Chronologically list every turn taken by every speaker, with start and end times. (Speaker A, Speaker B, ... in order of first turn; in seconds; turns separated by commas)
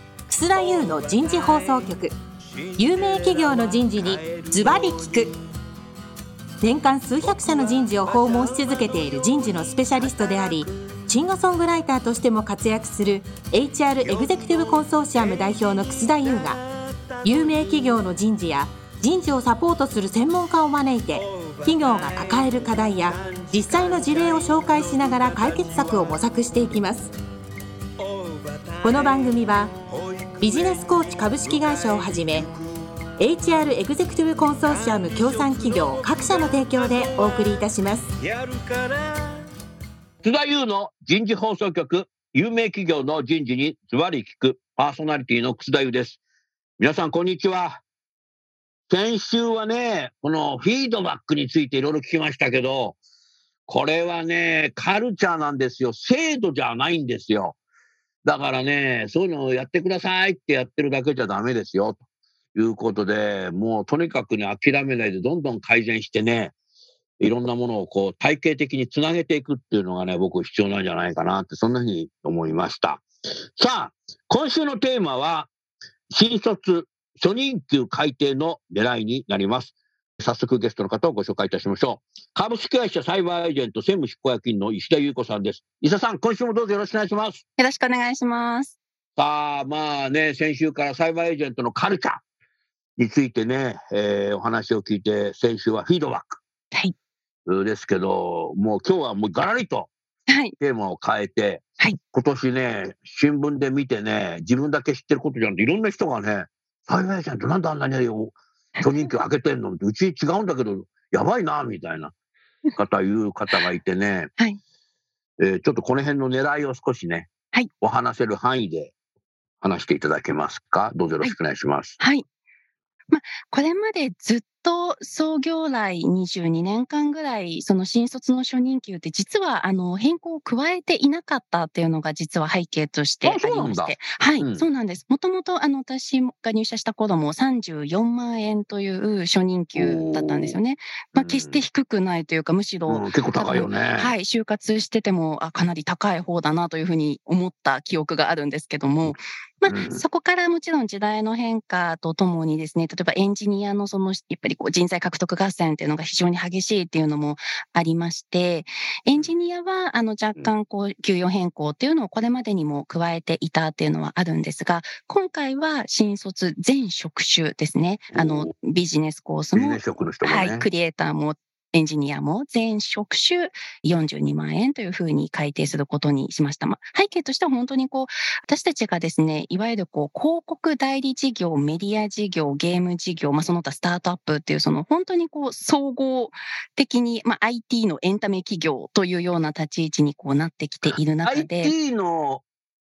Speaker A: 0.3-2.1, Speaker B: 0.5-2.0, Speaker B: 2.5-5.3, Speaker A: 2.8-5.3, Speaker A: 6.6-16.6, Speaker B: 7.2-11.0, Speaker B: 14.0-18.0, Speaker A: 17.2-27.1, Speaker B: 21.1-26.3, Speaker B: 28.0-32.5, Speaker A: 28.8-29.8, Speaker A: 30.4-32.5, Speaker A: 33.2-38.1, Speaker B: 34.6-37.6, Speaker B: 38.2-39.4, Speaker C: 40.2-46.2, Speaker C: 46.8-47.8, Speaker C: 48.9-53.0, Speaker C: 53.7-57.6, Speaker C: 58.2-62.0, Speaker C: 62.5-66.5, Speaker C: 67.2-73.0, Speaker C: 73.6-75.5, Speaker C: 76.1-87.4, Speaker D: 87.6-88.8, Speaker C: 89.2-92.2, Speaker C: 93.0-96.4, Speaker C: 97.5-99.9, Speaker D: 100.3-100.5, Speaker C: 100.6-112.1, Speaker C: 112.8-114.3, Speaker C: 115.4-117.3, Speaker C: 117.8-118.9, Speaker C: 119.6-122.0, Speaker D: 122.0-122.2, Speaker D: 123.1-191.8, Speaker C: 133.2-134.7, Speaker C: 139.8-140.6, Speaker C: 141.2-141.6, Speaker C: 142.9-144.1, Speaker C: 149.1-150.0, Speaker C: 168.1-168.5, Speaker C: 169.5-170.7, Speaker C: 190.8-192.4